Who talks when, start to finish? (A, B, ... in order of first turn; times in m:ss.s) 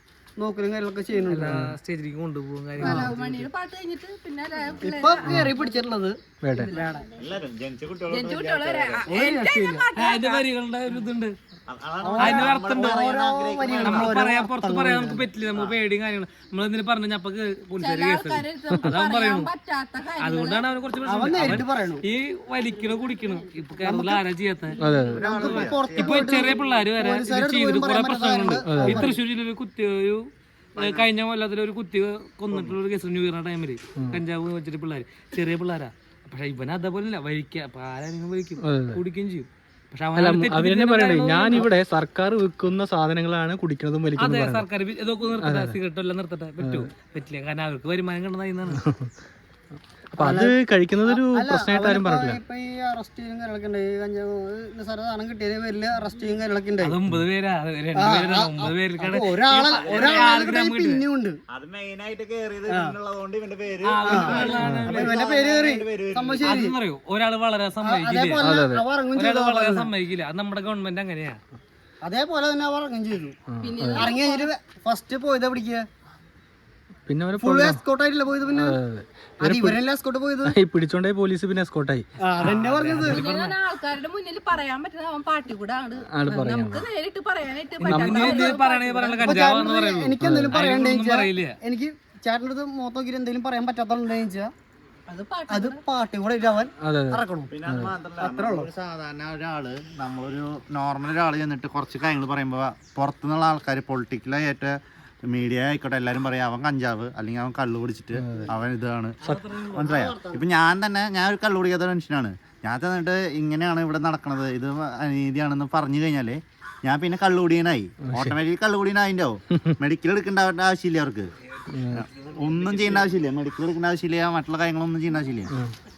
0:00.4-0:01.6 A
0:01.3-0:03.4 B
0:01.4-0:01.7 C
0:02.8-0:03.1 A
0:02.8-0:05.4 D
0:04.8-0:07.0 A
0:05.2-0:05.6 C
0:06.4-0:06.7 C
0:07.1-0:09.1 E
0:08.1-0:10.4 D
0:09.1-0:09.9 A
0:10.0-0:11.4 B
0:11.7-0:14.2 E
0:12.0-0:15.3 A
0:12.2-0:13.1 B
0:13.8-0:19.5 B
0:17.8-0:20.6 D
0:20.2-0:24.8 B
0:21.0-0:22.0 A
0:23.8-0:24.2 A
0:24.8-0:25.2 C
0:25.1-0:29.2 A
0:25.1-0:26.6 E
0:25.4-0:30.3 B
0:28.7-0:29.1 C
0:30.8-0:31.1 E
0:30.8-0:41.7 B
0:32.5-0:32.8 E
0:34.0-0:34.2 C
0:38.6-0:39.0 C
0:40.2-0:44.7 C
0:44.2-0:48.8 B
0:45.4-0:45.8 C
0:46.6-0:46.9 C
0:48.7-0:49.1 C
0:50.1-0:52.4 C
0:50.2-0:57.0 A
0:56.8-1:01.0 B
0:58.0-1:01.4 A
0:59.7-1:00.4 E
1:01.5-1:06.6 E
1:02.7-1:03.0 A
1:03.8-1:05.3 B
1:04.0-1:06.8 A
1:04.6-1:04.9 C
1:06.4-1:08.6 B
1:07.8-1:09.9 A
1:08.4-1:08.9 C
1:09.1-1:11.4 B
1:12.0-1:13.4 A
1:13.5-1:14.1 C
1:13.6-1:14.5 D
1:13.9-1:15.9 A
1:17.1-1:17.8 C
1:17.4-1:18.8 A
1:18.5-1:19.8 C
1:19.4-1:20.6 A
1:20.4-1:22.1 C
1:22.2-1:23.2 A
1:22.4-1:23.3 B
1:23.0-1:29.3 D
1:23.2-1:23.5 C
1:26.1-1:26.9 C
1:27.8-1:31.6 B
1:27.9-1:28.5 C
1:29.1-1:34.5 A
1:30.2-1:30.6 C
1:35.1-1:35.8 D
1:35.5-1:37.5 A
1:36.8-1:37.9 C
1:37.5-1:44.8 E
1:38.2-1:38.7 A
1:45.3-2:01.3 E
1:48.2-1:48.5 C
1:49.2-1:50.4 B
1:58.0-1:58.4 C
1:59.5-1:59.8 C
2:01.7-2:02.1 C
2:01.9-2:05.5 E
2:05.5-2:05.8 C